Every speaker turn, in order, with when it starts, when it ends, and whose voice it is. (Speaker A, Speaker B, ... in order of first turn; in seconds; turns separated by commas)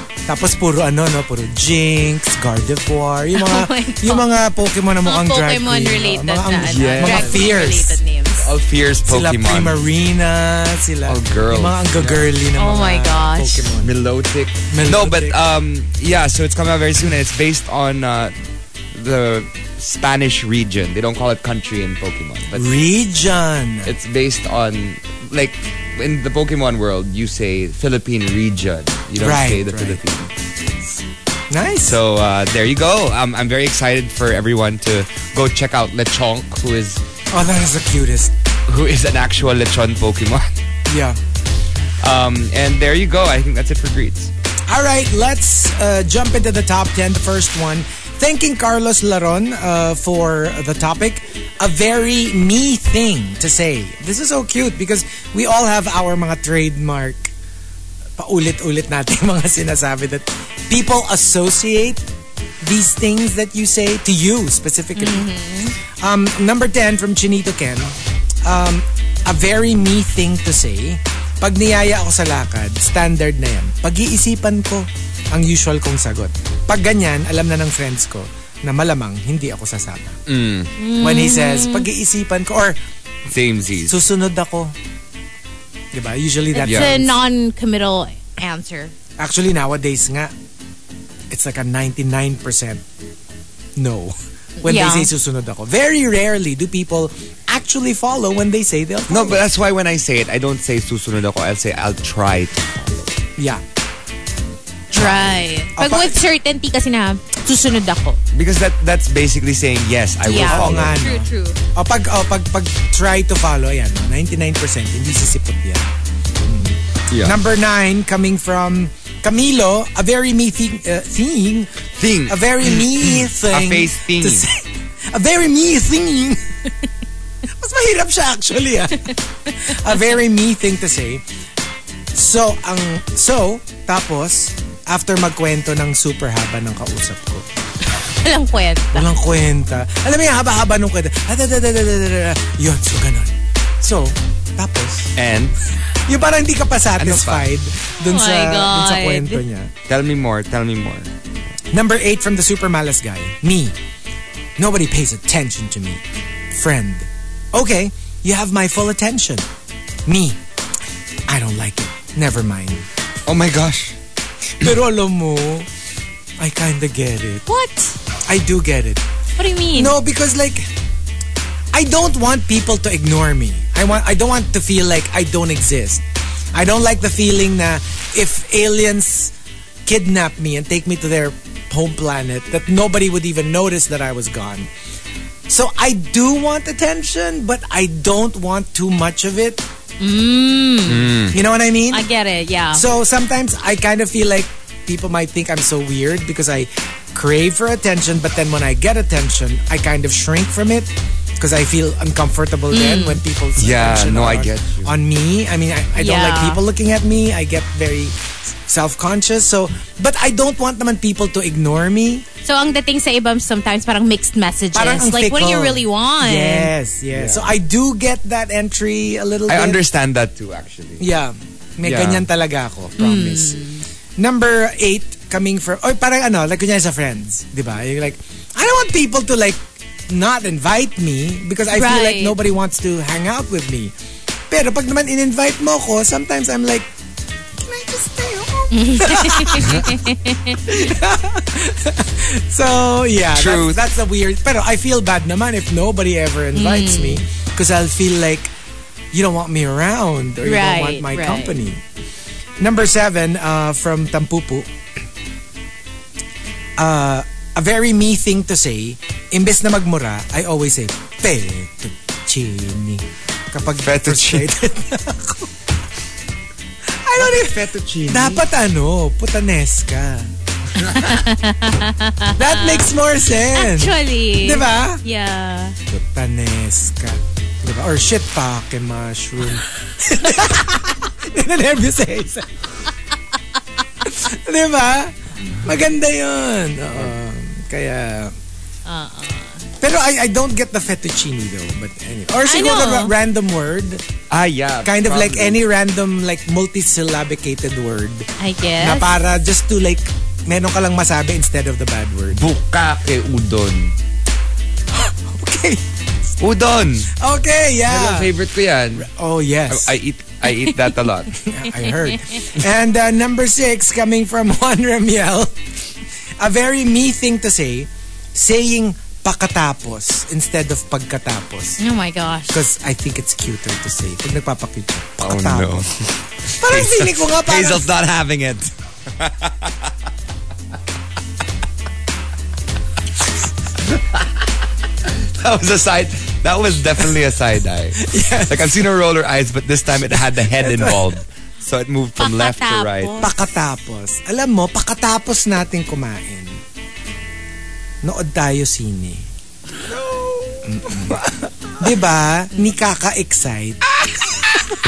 Speaker A: 0.3-8.0, Speaker B: 3.3-4.3, Speaker B: 5.0-8.5, Speaker C: 6.7-7.7, Speaker C: 8.4-9.9, Speaker A: 9.1-13.9, Speaker C: 11.1-12.3, Speaker B: 12.6-13.7, Speaker C: 13.8-18.3, Speaker A: 14.7-15.4, Speaker C: 18.9-22.8, Speaker A: 22.5-23.9, Speaker C: 23.9-30.3, Speaker A: 29.2-30.0, Speaker A: 31.5-32.0, Speaker C: 31.8-37.0, Speaker A: 37.3-38.3, Speaker C: 38.7-40.6, Speaker A: 40.9-41.2, Speaker C: 42.0-44.3, Speaker A: 44.7-57.3, Speaker A: 58.2-62.0, Speaker A: 62.6-65.3, Speaker B: 65.0-65.7, Speaker A: 66.0-80.2, Speaker C: 80.3-80.7, Speaker B: 80.8-81.9, Speaker A: 81.0-82.8, Speaker C: 83.2-84.0, Speaker A: 83.8-84.7, Speaker A: 85.9-87.2, Speaker B: 86.5-88.9, Speaker C: 86.6-86.9, Speaker A: 89.2-90.3, Speaker A: 91.3-92.8, Speaker A: 93.8-99.4, Speaker B: 94.6-95.1, Speaker C: 99.1-103.2, Speaker A: 103.4-103.6, Speaker A: 104.9-106.2, Speaker B: 104.9-108.2, Speaker C: 108.3-111.2, Speaker B: 110.2-111.6, Speaker A: 110.4-115.9, Speaker A: 116.4-126.6, Speaker C: 117.1-117.4, Speaker C: 121.9-124.5, Speaker A: 127.6-131.2, Speaker A: 132.1-137.4, Speaker B: 137.8-139.1, Speaker A: 138.9-145.1, Speaker C: 145.1-145.6, Speaker A: 146.1-149.7, Speaker C: 146.9-147.5, Speaker B: 148.0-149.4, Speaker C: 149.9-151.1, Speaker A: 151.7-153.7, Speaker A: 154.6-159.5, Speaker A: 160.1-160.4, Speaker A: 161.3-162.8, Speaker C: 163.2-164.0, Speaker A: 164.6-165.7, Speaker A: 166.4-167.5, Speaker B: 167.5-168.0, Speaker A: 168.3-169.0, Speaker B: 169.4-169.9, Speaker A: 169.7-170.7, Speaker A: 171.7-176.0, Speaker A: 176.5-179.3, Speaker A: 179.8-184.7, Speaker A: 185.5-189.6, Speaker B: 190.0-191.1, Speaker C: 190.8-191.3, Speaker A: 191.3-192.1, Speaker B: 191.9-192.8, Speaker A: 192.7-212.2, Speaker B: 202.7-203.2, Speaker C: 203.6-204.9, Speaker B: 205.9-206.6, Speaker B: 212.4-216.7, Speaker A: 214.7-219.8, Speaker C: 217.1-217.5, Speaker C: 219.5-221.1, Speaker A: 221.0-223.6, Speaker C: 221.8-222.3, Speaker B: 223.0-223.8, Speaker A: 224.2-233.9, Speaker B: 231.7-232.4, Speaker A: 234.5-236.9, Speaker A: 237.6-240.1, Speaker B: 238.7-240.8, Speaker A: 240.6-248.5, Speaker C: 243.3-243.8, Speaker B: 246.5-247.2, Speaker A: 249.1-251.8, Speaker B: 250.4-251.5, Speaker A: 252.6-254.7, Speaker A: 256.8-265.5, Speaker C: 263.8-264.6, Speaker A: 266.9-270.3, Speaker C: 267.1-268.4, Speaker C: 270.8-271.1, Speaker B: 270.9-275.8, Speaker A: 272.4-275.0, Speaker A: 275.9-282.5, Speaker A: 284.0-288.3, Speaker B: 288.9-289.6, Speaker A: 289.8-294.0, Speaker B: 292.5-293.1, Speaker C: 294.3-295.6, Speaker A: 294.8-302.4, Speaker B: 298.4-299.1, Speaker C: 302.3-303.9, Speaker A: 304.9-305.8, Speaker C: 306.4-307.1, Speaker A: 307.2-308.3, Speaker C: 307.9-309.1, Speaker A: 309.0-309.9, Speaker C: 309.7-311.3, Speaker A: 311.4-315.5, Speaker B: 311.8-312.4, Speaker A: 316.4-321.8, Speaker B: 321.8-322.6, Speaker A: 322.5-325.9, Speaker C: 325.2-329.9, Speaker A: 326.6-327.9, Speaker C: 333.9-334.2, Speaker C: 335.0-343.2, Speaker A: 338.0-338.8, Speaker A: 340.4-341.1, Speaker B: 342.2-343.4, Speaker A: 343.2-346.6, Speaker A: 348.0-349.2, Speaker C: 349.9-351.2, Speaker A: 350.6-353.9